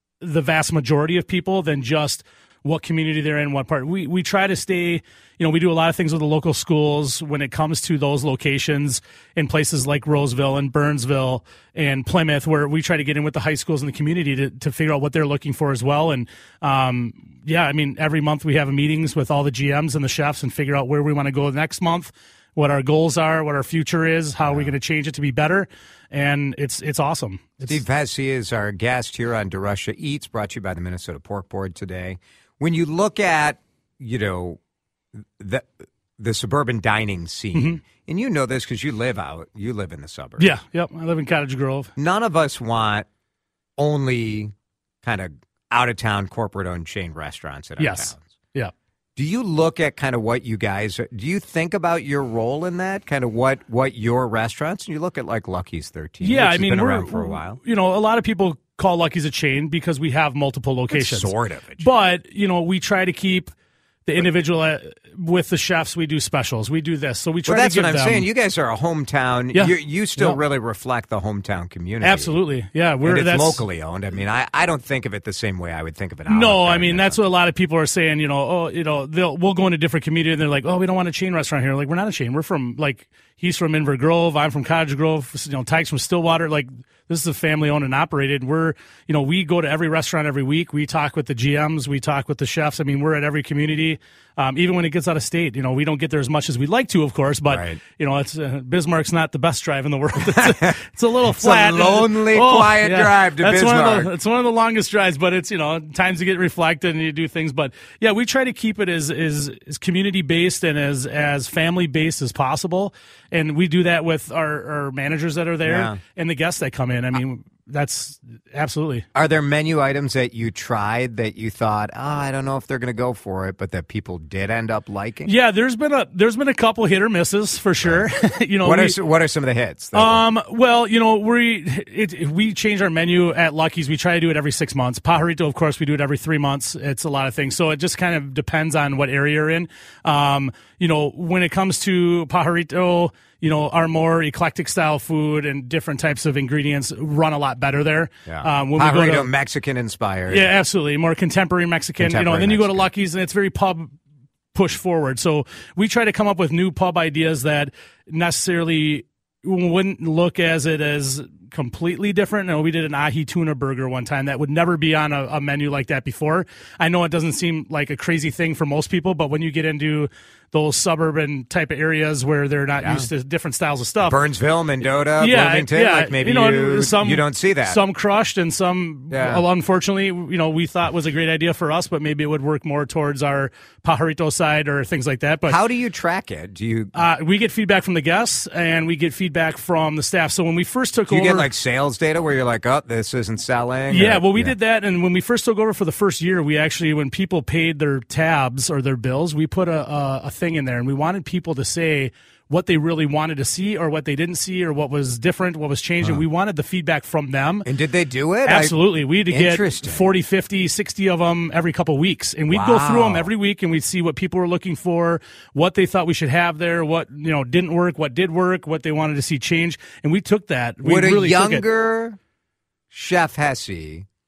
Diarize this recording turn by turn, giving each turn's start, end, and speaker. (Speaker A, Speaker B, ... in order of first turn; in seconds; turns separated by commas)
Speaker A: 0.2-27.8, Speaker B: 24.5-24.7, Speaker B: 27.6-34.6, Speaker B: 35.2-40.5, Speaker A: 37.5-37.8, Speaker A: 40.4-41.9, Speaker B: 42.0-43.1, Speaker B: 43.8-48.3, Speaker A: 47.8-48.7, Speaker B: 49.2-57.6, Speaker A: 56.2-63.5, Speaker B: 60.9-61.9, Speaker A: 64.1-68.3, Speaker B: 67.5-72.4, Speaker A: 69.5-70.4, Speaker A: 72.0-73.6, Speaker B: 73.0-77.2, Speaker A: 76.3-119.1, Speaker B: 97.5-97.8, Speaker B: 100.2-104.1, Speaker B: 115.6-116.0, Speaker B: 119.2-125.3, Speaker A: 125.3-129.0, Speaker B: 127.8-128.1, Speaker B: 128.6-130.2, Speaker A: 129.9-149.3, Speaker B: 148.3-150.5, Speaker A: 150.3-153.9, Speaker B: 152.0-152.9, Speaker A: 154.5-174.2, Speaker B: 172.8-173.1, Speaker B: 174.0-177.8, Speaker A: 175.2-185.6, Speaker B: 179.1-179.4, Speaker B: 185.5-186.9, Speaker A: 186.9-191.5, Speaker B: 191.1-194.5, Speaker A: 193.9-207.7, Speaker B: 207.7-210.0, Speaker A: 208.4-221.6, Speaker B: 212.5-213.3, Speaker B: 220.8-222.2, Speaker B: 222.9-224.1